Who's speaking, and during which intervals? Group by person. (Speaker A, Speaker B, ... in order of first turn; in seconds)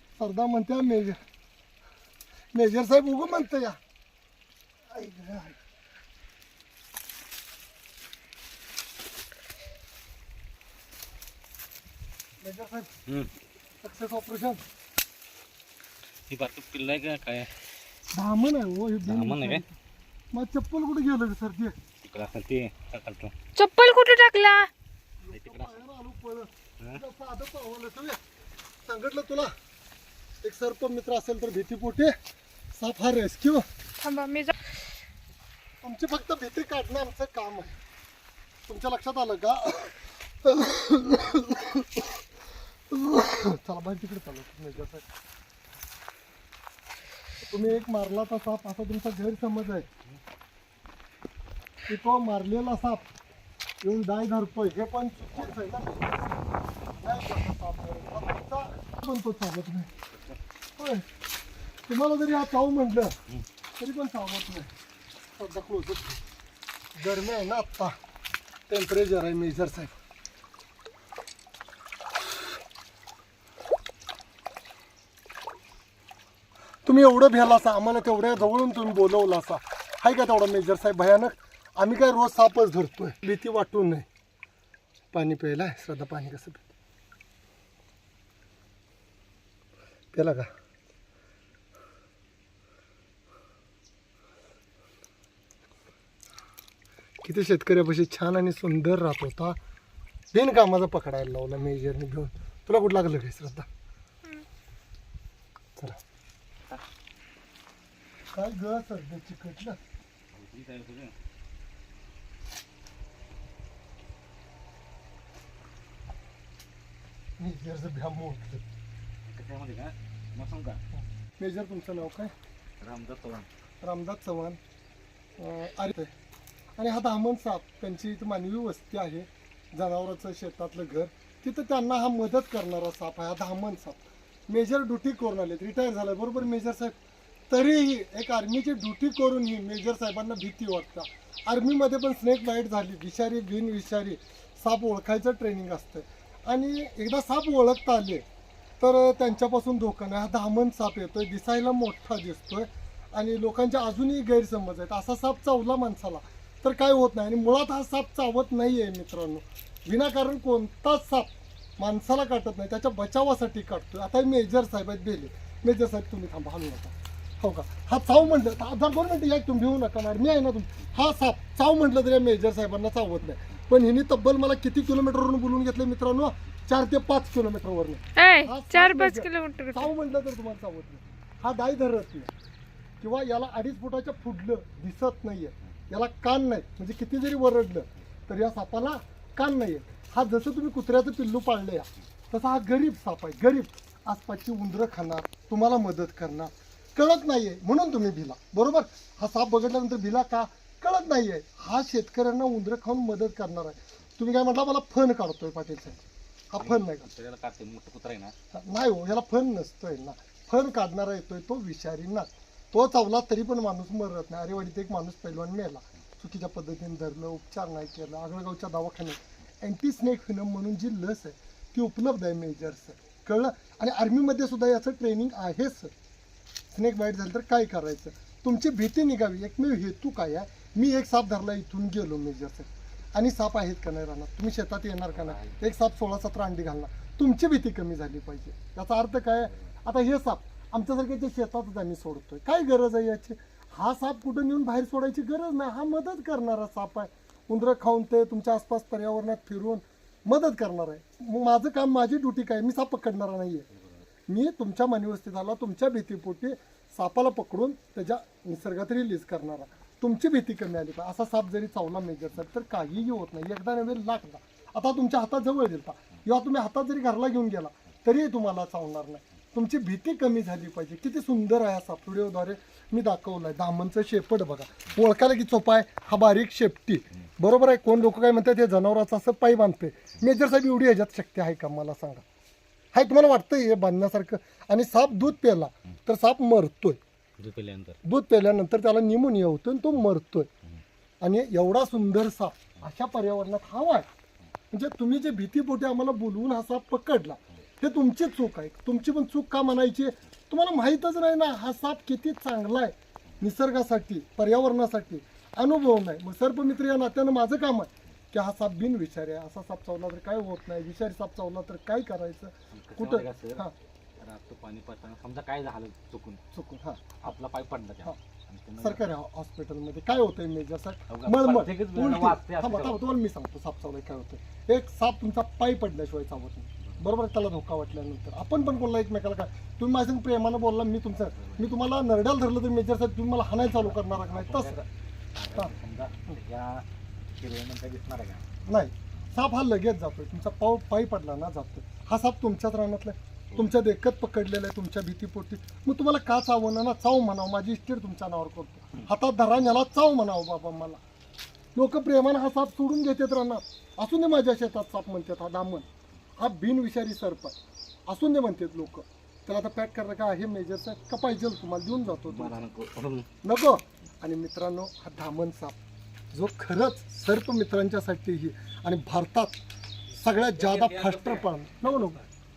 Speaker A: 0.2-1.2, 2.5-3.8, 4.9-5.6, 12.4-12.9, 13.8-14.6, 18.1-19.8, 20.3-21.8, 25.2-28.2, 28.9-29.5, 30.4-32.2, 32.7-33.7, 35.8-37.8, 38.7-42.1, 42.9-45.0, 47.5-49.9, 51.9-53.1, 53.8-56.1, 57.0-59.9, 60.8-61.1, 61.9-63.2, 63.8-64.7, 65.3-66.2, 67.0-68.0, 68.7-69.9, 76.8-84.1, 85.1-86.7, 90.1-90.5, 97.2-99.6, 100.3-103.7, 108.3-109.8, 117.4-118.6, 121.4-122.3, 123.8-124.6, 125.4-126.1, 126.8-136.9, 137.5-148.2, 148.8-182.3, 183.0-206.0, 206.5-207.1, 208.5-225.9, 226.7-253.7, 254.3-282.2, 282.9-287.0, 288.0-290.5, 291.2-294.1, 294.7-313.8, 316.5-317.0, 318.8-334.8, 338.7-351.0, 351.8-357.6, 358.1-362.6, 363.4-365.8, 366.3-369.6, 370.1-372.2
Speaker B: 16.3-17.5, 19.1-19.6, 22.0-23.3, 25.3-25.8, 60.1-60.4, 110.3-111.2, 119.3-120.8, 122.8-123.5, 206.6-208.3, 235.1-235.6, 287.4-288.0, 312.7-313.6, 314.2-316.4, 317.2-319.1, 321.1-323.0, 331.4-331.6, 333.6-338.6, 362.3-363.3, 370.2-372.3
Speaker C: 23.6-24.7, 34.0-34.5, 178.2-179.9